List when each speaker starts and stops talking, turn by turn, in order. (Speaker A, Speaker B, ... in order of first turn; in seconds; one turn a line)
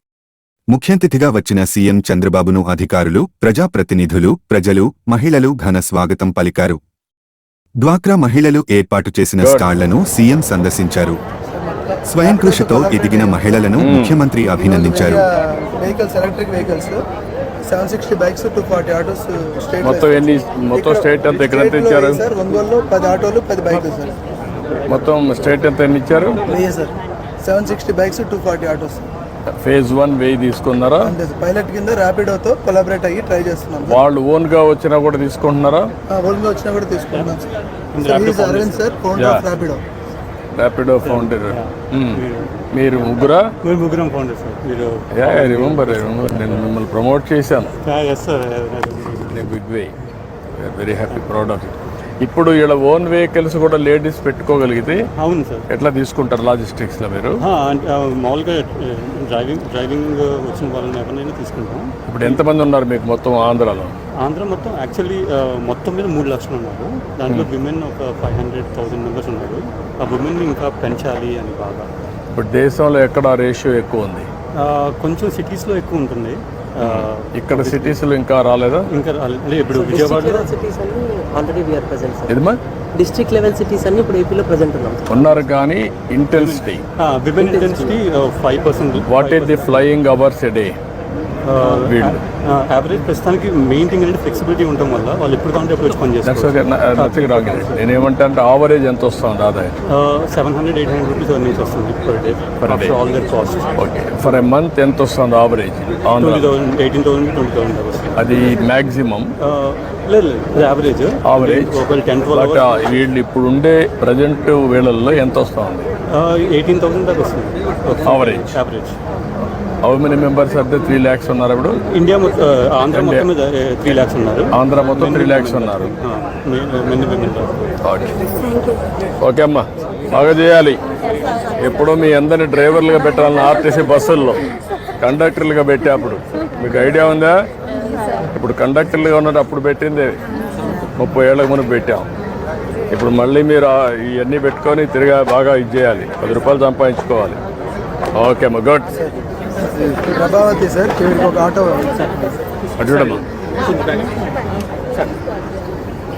Speaker A: 0.7-6.8
Speaker A: 7.8-11.2
Speaker B: 9.4-9.7
Speaker C: 11.5-13.6
Speaker A: 12.1-15.2
Speaker B: 13.8-14.2
Speaker C: 14.4-17.0
Speaker C: 17.7-24.1
Speaker B: 19.8-22.2
Speaker B: 24.9-26.4
Speaker C: 26.4-29.0
Speaker B: 29.6-31.1
Speaker C: 31.0-34.0
Speaker B: 33.9-35.9
Speaker C: 36.1-37.5
Speaker D: 37.9-39.3
Speaker C: 38.0-39.8
Speaker B: 40.6-42.2
Speaker D: 41.0-42.5
Speaker B: 42.7-43.5
Speaker D: 43.6-46.0
Speaker B: 45.1-47.7
Speaker D: 47.8-49.3
Speaker B: 49.3-49.9
Speaker B: 50.6-55.0
Speaker D: 55.2-55.6
Speaker B: 55.7-57.4
Speaker D: 57.4-62.4
Speaker B: 62.1-63.9
Speaker D: 64.2-71.9
Speaker B: 72.3-74.3
Speaker D: 74.6-78.0
Speaker B: 76.8-78.8
Speaker D: 78.9-80.5
Speaker E: 79.7-82.4
Speaker B: 82.3-82.6
Speaker E: 83.0-85.0
Speaker B: 85.1-86.8
Speaker D: 86.3-89.8
Speaker E: 87.4-87.9
Speaker B: 89.0-90.7
Speaker D: 91.5-97.8
Speaker B: 91.7-92.2
Speaker B: 96.2-99.7
Speaker D: 99.8-103.7
Speaker B: 102.6-103.0
Speaker B: 103.8-106.5
Speaker D: 106.2-108.1
Speaker B: 108.2-109.3
Speaker D: 109.5-112.7
Speaker B: 111.2-111.7
Speaker B: 112.3-115.8
Speaker D: 116.2-118.9
Speaker B: 118.0-118.6
Speaker B: 119.8-121.8
Speaker D: 121.9-127.6
Speaker B: 122.9-123.3
Speaker B: 124.5-125.9
Speaker B: 127.8-128.2
Speaker B: 129.2-130.8
Speaker B: 131.6-134.4
Speaker B: 135.0-137.3
Speaker B: 138.3-140.2
Speaker B: 141.0-142.1
Speaker B: 142.9-147.4
Speaker B: 148.2-148.9
Speaker C: 148.9-152.1
Speaker B: 152.8-153.2